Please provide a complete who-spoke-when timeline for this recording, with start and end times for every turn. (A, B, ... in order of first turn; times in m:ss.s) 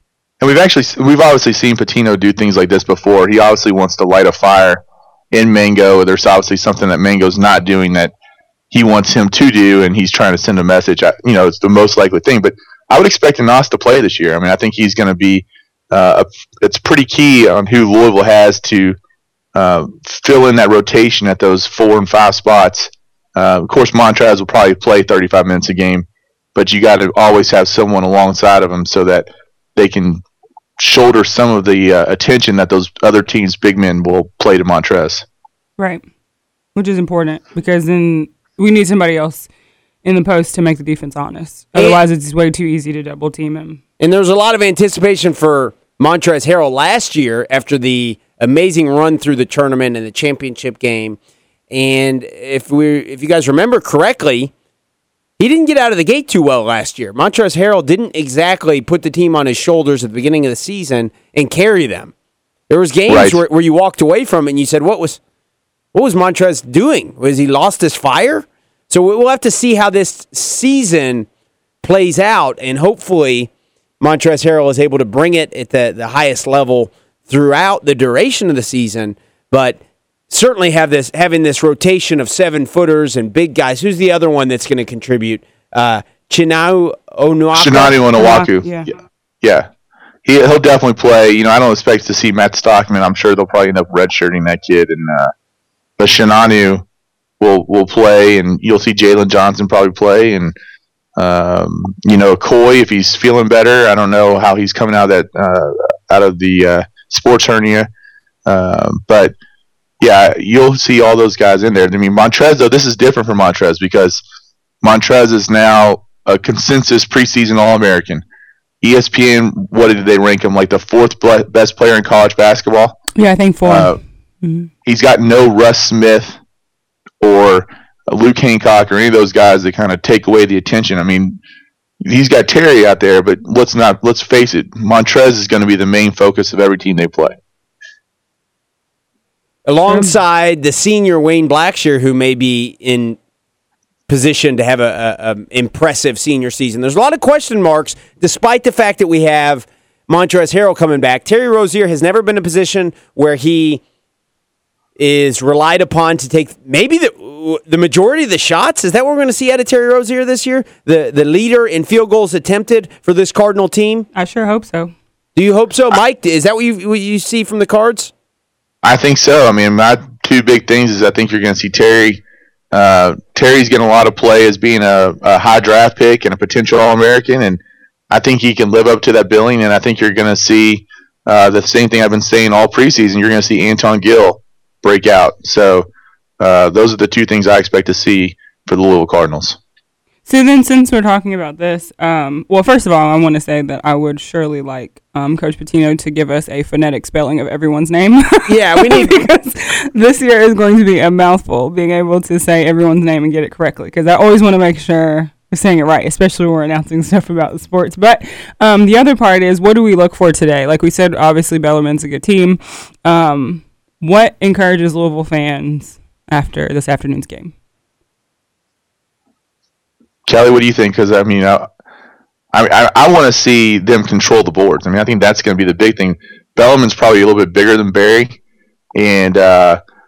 0:00.4-0:08.1 A
0:08.7-0:19.0 A
0:19.5-0:30.2 A
0:30.8-0:35.2 A
0:35.8-0:36.0 B
0:36.7-0:39.5 B
0:40.0-0:43.8 B
0:41.8-0:42.0 C
0:44.0-0:51.2 C
0:51.7-0:54.5 C
0:55.4-1:02.1 C
1:02.7-1:05.2 C
1:03.1-1:03.4 A
1:05.9-1:11.3 C
1:11.8-1:13.5 C
1:14.0-1:19.8 C
1:20.3-1:28.0 C
1:27.5-1:28.8 A
1:28.2-1:28.9 B
1:29.4-1:29.7 A
1:30.2-1:35.3 A
1:36.0-1:36.8 A
1:37.4-1:40.5 A
1:41.2-1:47.9 A
1:48.4-1:49.3 A
1:50.0-1:54.2 A
1:54.8-1:58.2 A
1:58.8-2:03.0 A
2:03.1-2:04.7 B
2:03.6-2:04.0 A
2:04.8-2:06.4 A
2:07.2-2:11.4 A
2:12.0-2:17.4 A
2:19.6-2:23.2 C
2:19.9-2:20.2 B
2:24.1-2:33.8 C
2:35.0-2:44.1 C
2:44.1-2:44.9 B
2:45.4-2:48.1 C
2:48.8-2:52.2 A
2:52.7-2:57.6 A
2:58.1-3:05.9 A
3:06.4-3:09.6 A
3:10.2-3:37.5 B
3:18.5-3:19.2 C
3:40.2-3:41.7 A
3:42.5-3:48.4 A
3:48.9-3:49.8 A